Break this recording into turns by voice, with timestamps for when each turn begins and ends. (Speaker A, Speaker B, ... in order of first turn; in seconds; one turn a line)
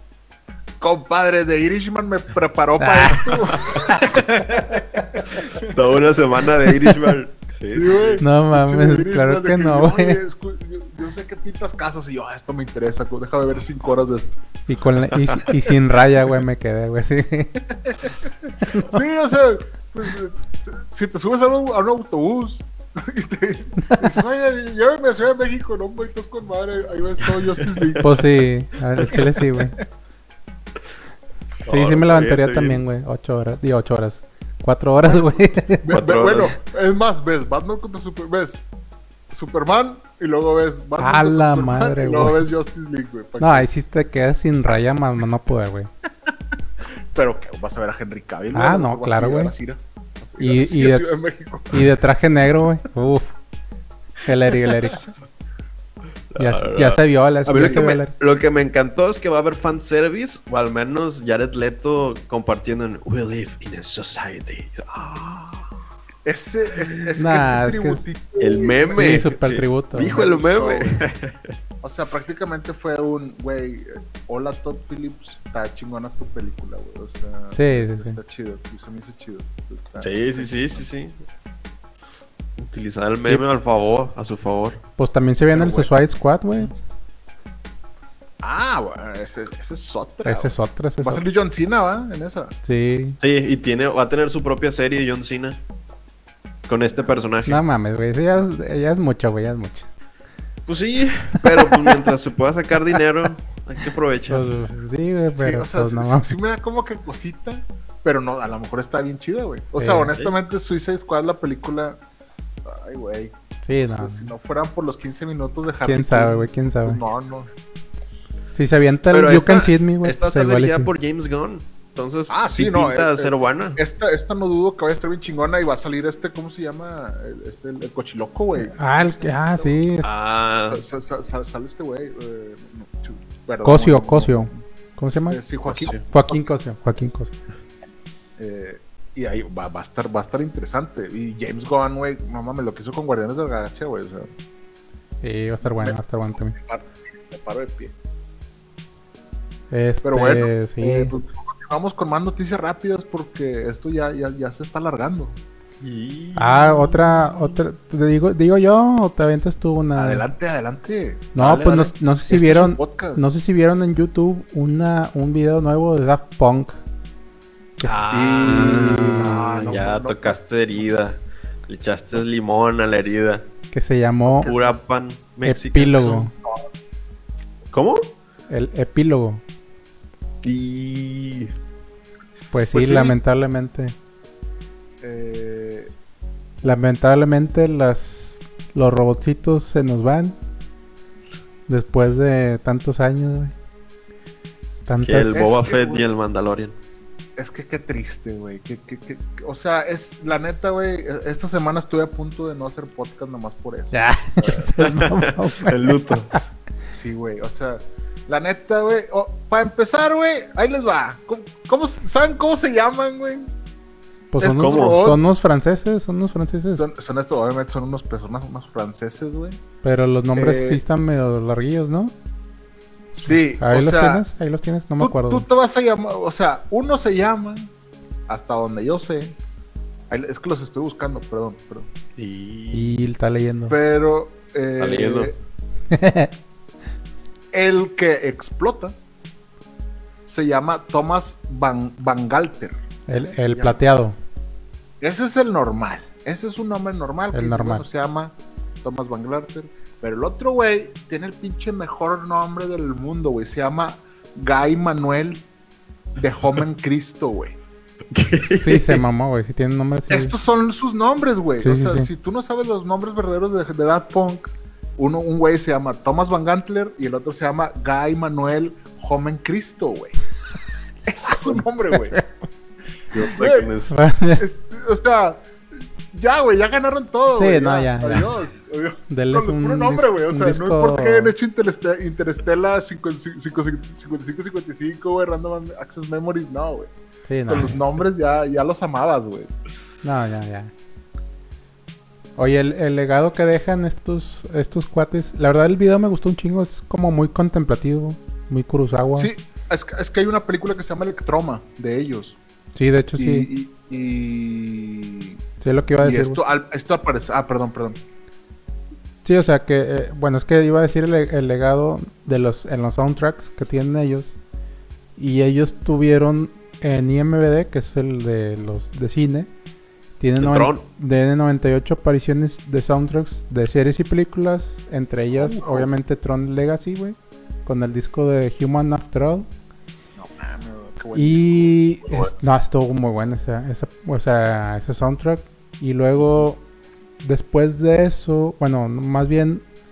Speaker A: 0.8-5.8
Speaker B: 2.8-5.1
Speaker C: 3.3-3.6
Speaker C: 5.6-8.2
Speaker A: 7.7-14.4
Speaker B: 8.2-10.2
Speaker B: 14.7-17.7
Speaker A: 17.8-28.1
Speaker B: 23.8-24.1
Speaker C: 27.6-28.0
Speaker B: 28.0-29.8
Speaker A: 29.1-29.6
Speaker C: 31.7-32.8
Speaker B: 31.7-35.9
Speaker A: 35.8-38.7
Speaker C: 35.9-36.5
Speaker A: 39.3-43.7
Speaker B: 41.0-42.5
Speaker B: 43.4-45.9
Speaker A: 46.3-51.9
Speaker B: 48.5-49.5
Speaker B: 50.4-51.0
Speaker B: 51.7-53.4
Speaker B: 54.2-55.0
Speaker A: 54.7-55.0
Speaker C: 56.3-65.7
Speaker B: 56.4-58.1
Speaker A: 57.6-57.9
Speaker A: 66.2-69.3
Speaker C: 66.8-67.1
Speaker B: 67.2-68.0
Speaker C: 68.4-71.5
Speaker B: 68.9-70.2
Speaker A: 70.1-71.0
Speaker A: 71.8-80.9
Speaker B: 77.6-78.2
Speaker C: 80.0-81.2
Speaker C: 82.6-84.8
Speaker B: 85.0-86.7
Speaker A: 85.5-85.9
Speaker A: 88.4-92.5
Speaker B: 90.2-91.2
Speaker B: 92.6-93.2
Speaker C: 93.2-95.6
Speaker C: 96.7-97.6
Speaker A: 97.0-97.3
Speaker B: 97.5-99.9
Speaker C: 100.7-104.5
Speaker B: 101.4-102.0
Speaker B: 104.3-106.4
Speaker A: 105.3-112.0
Speaker B: 109.8-110.1
Speaker A: 112.6-117.5
Speaker B: 113.6-114.3
Speaker B: 115.8-117.0
Speaker B: 118.5-120.9
Speaker C: 119.1-123.8
Speaker A: 122.3-129.9
Speaker B: 128.6-130.1
Speaker C: 130.0-130.8
Speaker A: 130.7-134.6
Speaker B: 133.6-135.4
Speaker A: 135.3-136.4
Speaker C: 135.7-136.0
Speaker B: 136.1-137.3
Speaker A: 138.4-144.3
Speaker B: 145.2-146.6
Speaker A: 145.6-147.9
Speaker B: 149.7-151.2
Speaker A: 150.0-155.4
Speaker C: 155.8-157.7
Speaker B: 156.4-160.3
Speaker A: 160.0-163.2
Speaker B: 161.3-166.8
Speaker B: 167.8-169.8
Speaker C: 167.8-173.5
Speaker A: 168.1-170.8
Speaker B: 173.7-174.5
Speaker A: 174.4-174.8
Speaker C: 174.4-176.1
Speaker B: 175.4-176.3
Speaker A: 176.0-176.7
Speaker C: 177.7-178.0
Speaker B: 178.5-179.4
Speaker C: 180.4-181.5
Speaker B: 182.5-183.9
Speaker A: 182.7-183.2
Speaker A: 185.0-185.9
Speaker B: 186.6-190.4
Speaker B: 191.7-193.5
Speaker B: 194.9-195.3
Speaker C: 195.0-196.8
Speaker A: 195.3-196.1
Speaker A: 197.4-204.7
Speaker B: 203.9-206.4
Speaker C: 204.8-206.3
Speaker A: 206.9-213.5
Speaker B: 214.3-216.8
Speaker A: 214.4-215.4
Speaker C: 214.5-215.0
Speaker A: 216.7-219.6
Speaker B: 219.8-222.1
Speaker A: 220.3-220.8
Speaker A: 223.1-224.2
Speaker B: 223.2-225.4
Speaker A: 225.0-227.7
Speaker A: 228.3-229.4
Speaker A: 230.1-231.9
Speaker C: 232.2-232.9
Speaker B: 232.7-233.8
Speaker A: 233.7-235.3
Speaker C: 234.8-235.3
Speaker B: 235.9-236.3
Speaker A: 237.5-239.0
Speaker A: 240.3-243.8
Speaker B: 243.1-244.2
Speaker A: 245.0-255.5
Speaker B: 247.3-247.9
Speaker A: 256.2-257.6
Speaker C: 258.1-259.0
Speaker B: 258.5-260.3
Speaker A: 260.1-270.2
Speaker B: 261.6-262.1
Speaker A: 271.1-272.2
Speaker C: 273.1-273.9
Speaker A: 273.3-273.8
Speaker B: 273.9-274.4
Speaker A: 274.4-275.5
Speaker A: 276.1-286.9
Speaker B: 277.4-278.3
Speaker B: 279.1-281.3
Speaker B: 287.2-287.8
Speaker A: 287.5-289.5
Speaker B: 290.0-290.7
Speaker B: 292.4-299.3
Speaker A: 299.2-302.4
Speaker B: 302.8-303.5
Speaker A: 303.2-305.4
Speaker B: 305.6-306.4
Speaker A: 306.0-308.0
Speaker B: 309.2-314.4
Speaker B: 315.2-319.5
Speaker B: 320.2-329.5
Speaker C: 320.4-320.8
Speaker A: 325.4-325.9
Speaker A: 330.2-332.3
Speaker B: 331.1-336.6
Speaker B: 337.2-339.6